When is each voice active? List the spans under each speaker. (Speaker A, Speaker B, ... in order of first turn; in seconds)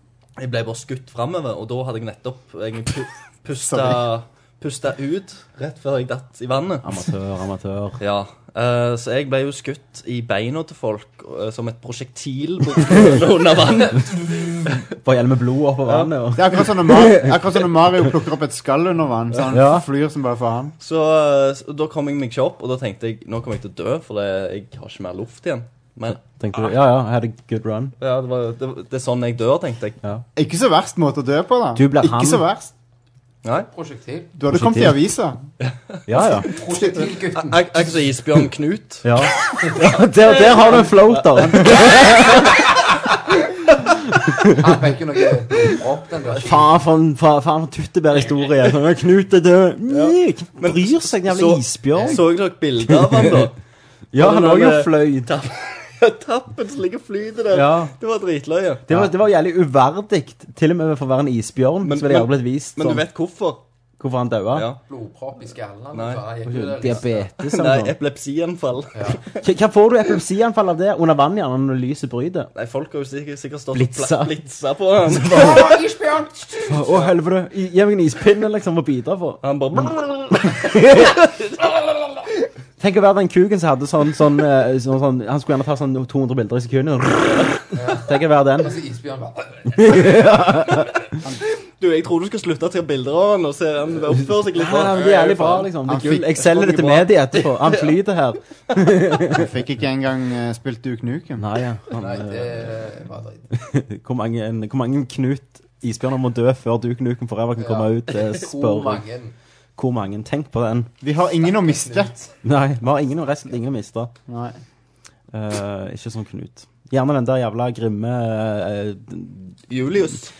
Speaker A: 0.4-7.0, 8.0-14.8, 15.8-16.1, 20.8-26.8, 28.0-30.0, 33.4-33.7, 35.6-36.7, 37.4-39.1, 49.9-53.6, 54.1-59.1, 61.8-63.6, 64.5-64.8, 65.9-66.2, 67.4-69.4, 72.5-75.8, 79.4-80.8, 91.6-98.0, 98.7-99.2, 119.7-120.3
Speaker B: 3.7-4.0, 16.4-20.7, 30.4-32.7, 34.4-35.4, 36.7-37.0, 95.9-96.3, 99.3-101.4, 111.0-112.1, 114.3-114.6
Speaker C: 6.8-8.0, 14.8-17.4, 19.5-19.9, 26.4-27.9, 31.8-32.4, 34.5-35.0, 36.1-36.5, 39.0-42.6, 44.1-44.6, 46.4-52.3, 52.9-53.3, 54.1-55.3, 57.5-57.9, 58.9-63.0, 64.0-64.7, 66.4-68.0, 69.4-72.5, 73.7-74.4, 75.2-75.7, 76.7-79.9, 80.5-81.1, 82.8-88.8, 89.8-91.0, 94.2-99.5, 101.4-102.7, 103.6-109.0, 109.8-110.9, 112.4-114.1, 115.3-119.6
Speaker D: 33.7-34.3, 36.4-37.8, 44.5-46.7, 51.9-52.2, 64.9-67.3, 68.9-69.2, 75.3-76.8, 87.7-90.2, 101.9-103.5, 107.6-109.3